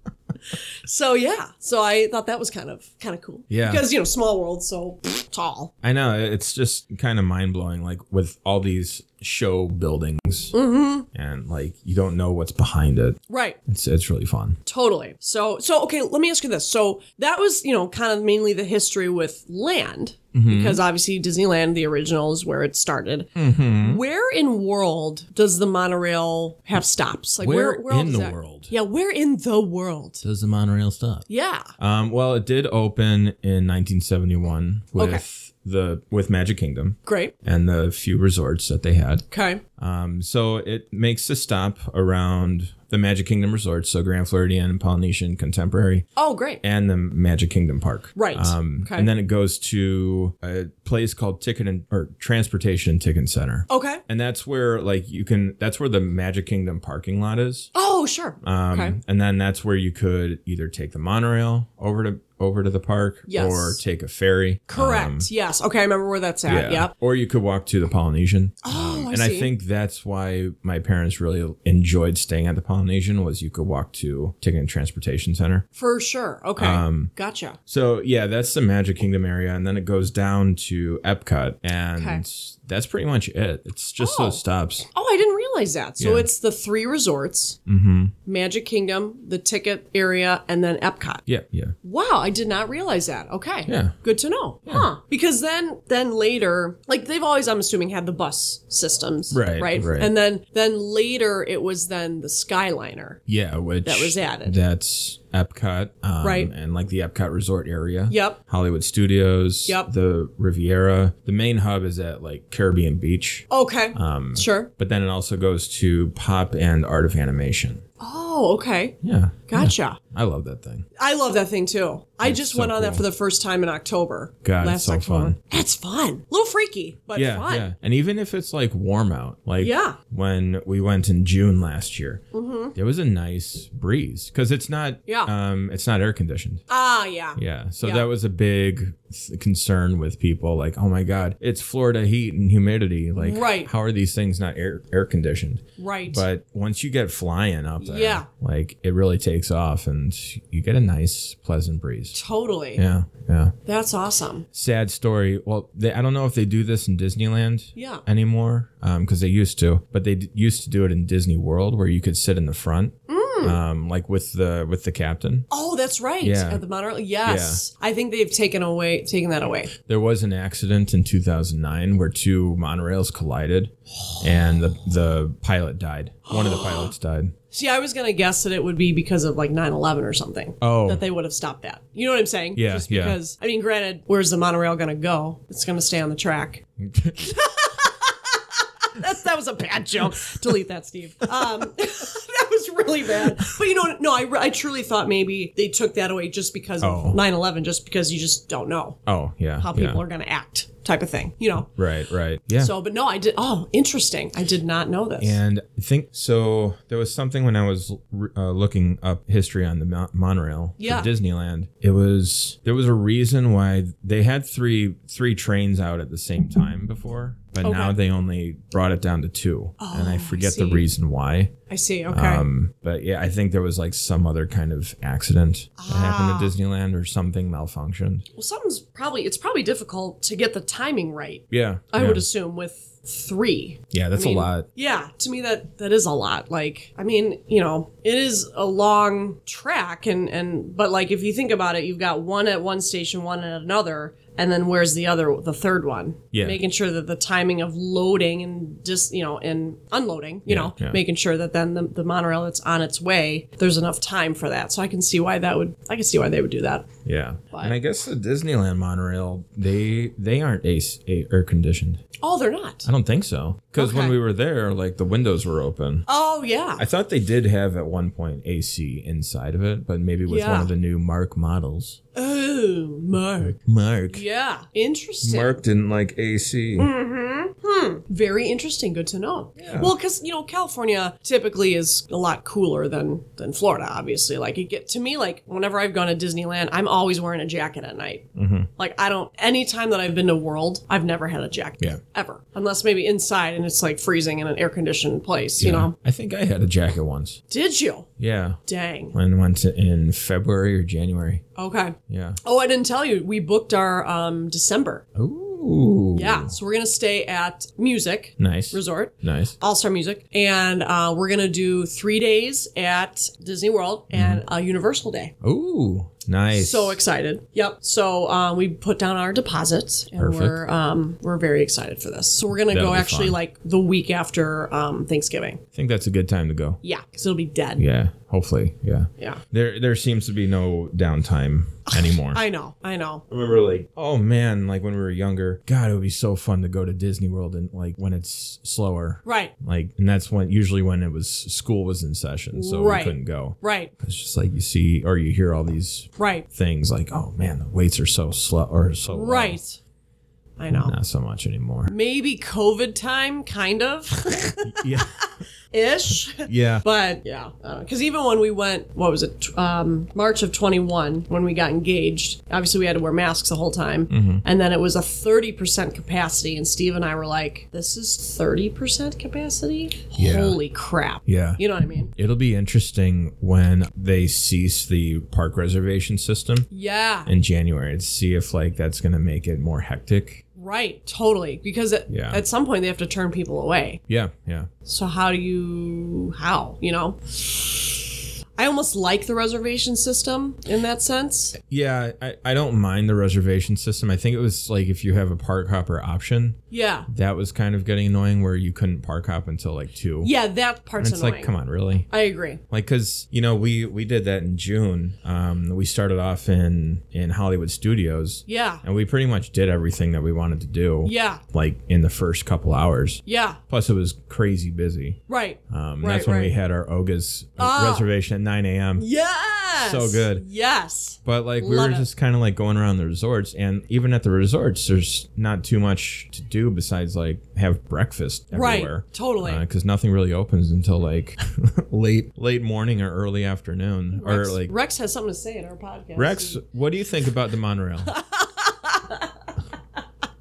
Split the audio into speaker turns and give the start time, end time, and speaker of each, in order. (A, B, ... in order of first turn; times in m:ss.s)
0:00.5-0:05.7 A
0:03.5-0:03.9 B
0:05.8-0:10.6 B
0:10.5-0:11.1 A
0:11.1-0:14.6 B
0:13.3-0:13.6 A
0:14.6-0:30.2 A
0:20.3-0:20.8 B
0:23.4-0:24.0 B
0:27.4-0:28.7 B
0:30.2-0:31.2 B
0:31.3-0:31.7 A
0:31.8-0:39.3 B
0:35.0-0:35.2 A
0:37.1-0:37.3 A
0:39.3-0:39.6 A
0:39.8-0:46.1 B
0:46.2-0:46.6 A
0:46.6-0:57.7 B
0:48.1-0:49.1 A
0:53.7-0:54.0 A
0:57.7-0:59.0 A
0:58.4-1:05.3 B
1:03.3-1:03.8 A
1:04.7-1:06.9 A
1:06.5-1:15.6 B
1:08.6-1:09.5 A
1:15.8-1:17.6 A
1:16.6-1:17.1 B
1:17.7-1:24.9 B
1:22.0-1:22.2 A
1:24.0-1:27.6 A
1:26.0-1:26.3 B
1:27.6-1:28.1 B
1:28.3-1:31.2 A
1:31.3-1:31.8 B
1:31.8-1:43.2 A
1:33.7-1:34.0 B
1:39.3-1:40.1 B
1:43.3-1:57.8 B
1:43.8-1:44.6 A
1:46.2-1:46.5 A
1:48.1-1:48.4 A
1:53.5-1:54.7 A
1:58.0-2:00.0 A
1:59.0-2:00.9 B
2:01.0-2:07.7 A
2:02.2-2:03.0 B
2:04.4-2:05.4 B
2:07.1-2:16.6 B
2:09.6-2:10.0 A
2:12.3-2:12.7 A
2:15.1-2:15.3 A
2:16.7-2:18.1 A
2:17.4-2:32.2 B
2:23.2-2:23.7 A
2:25.8-2:26.2 A
2:27.8-2:28.3 A
2:32.1-2:32.8 A
2:32.8-2:33.6 B
2:33.6-2:34.4 A
2:34.5-2:45.5 B
2:37.8-2:38.0 A
2:43.1-2:43.6 A
2:45.5-2:49.7 A
2:46.2-2:46.6 B
2:47.2-2:47.6 B
2:49.8-2:57.4 B
2:56.3-2:56.9 A
2:57.5-3:06.6 A
3:00.6-3:01.0 B
3:02.6-3:03.2 B
3:06.8-3:07.3 B
3:07.2-3:19.0 A
3:16.8-3:17.2 B
3:19.1-3:20.0 B
3:19.6-3:21.7 A
3:21.8-3:22.7 B
3:22.6-3:25.4 A
3:25.2-3:41.6 B
3:30.8-3:31.1 A
3:37.6-3:37.9 A
3:39.8-3:40.9 A
3:41.7-3:42.4 A
3:42.1-3:48.3 B
3:45.8-3:46.6 A
3:48.4-4:16.9 A
3:51.5-3:52.2 B
3:53.9-3:54.7 B
4:06.3-4:06.6 B
4:10.5-4:11.0 B
4:17.0-4:22.0 B
4:22.2-4:22.9 A
4:22.8-4:26.1 B
4:23.8-4:24.2 A
4:26.1-4:26.8 A
4:26.8-4:32.0 B
4:30.3-4:30.7 A
4:32.1-4:33.6 A
4:33.4-4:34.2 B
4:34.1-4:35.6 A
4:35.2-4:36.9 B
4:36.8-4:55.9 A
4:39.6-4:39.9 B
4:48.4-4:48.7 B
4:55.6-4:57.4 B
4:57.5-4:58.1 A
4:58.2-4:58.6 B
4:58.6-4:59.1 A
4:59.1-5:01.4 B
5:01.6-5:05.0 A
5:02.1-5:02.4 B
5:05.2-5:06.5 B
5:06.1-5:15.3 A
5:08.4-5:09.6 B
5:14.1-5:14.4 B
5:15.4-5:17.0 B
5:16.5-5:25.6 A
5:20.2-5:20.6 B
5:22.7-5:23.4 B
5:25.7-5:26.8 B
5:26.8-5:27.8 A
5:27.8-5:32.4 B
5:31.9-5:33.2 A
5:33.3-5:49.6 B
5:39.2-5:39.5 A
5:42.5-5:43.9 A
5:46.2-5:46.5 A
5:49.1-5:49.8 A
5:50.6-5:51.0 A
5:50.7-5:51.9 B
5:51.9-5:55.1 A
5:54.7-5:55.3 B
5:55.7-6:12.1 A
5:56.4-5:56.8 B
6:04.1-6:04.4 B
6:10.2-6:10.6 B
6:11.3-6:16.7 B
6:16.7-6:17.3 A
6:17.2-6:20.4 B
6:20.6-6:24.0 A
6:22.1-6:22.4 B
6:24.1-6:24.7 B
6:24.8-6:31.6 A
6:31.6-6:40.3 B
6:36.7-6:37.1 A
6:40.2-6:41.5 A
6:41.0-6:42.1 B
6:42.1-6:42.6 A
6:42.7-6:59.1 B
6:48.5-6:48.8 A
6:51.0-6:51.4 A
6:53.3-6:53.6 A
6:55.3-6:56.5 A
6:57.6-6:58.1 A
6:59.0-7:02.1 A
6:59.8-7:00.4 B
7:01.2-7:14.7 B
7:08.5-7:09.6 A
7:14.2-7:16.6 A
7:16.2-7:18.1 B
7:18.1-7:19.5 A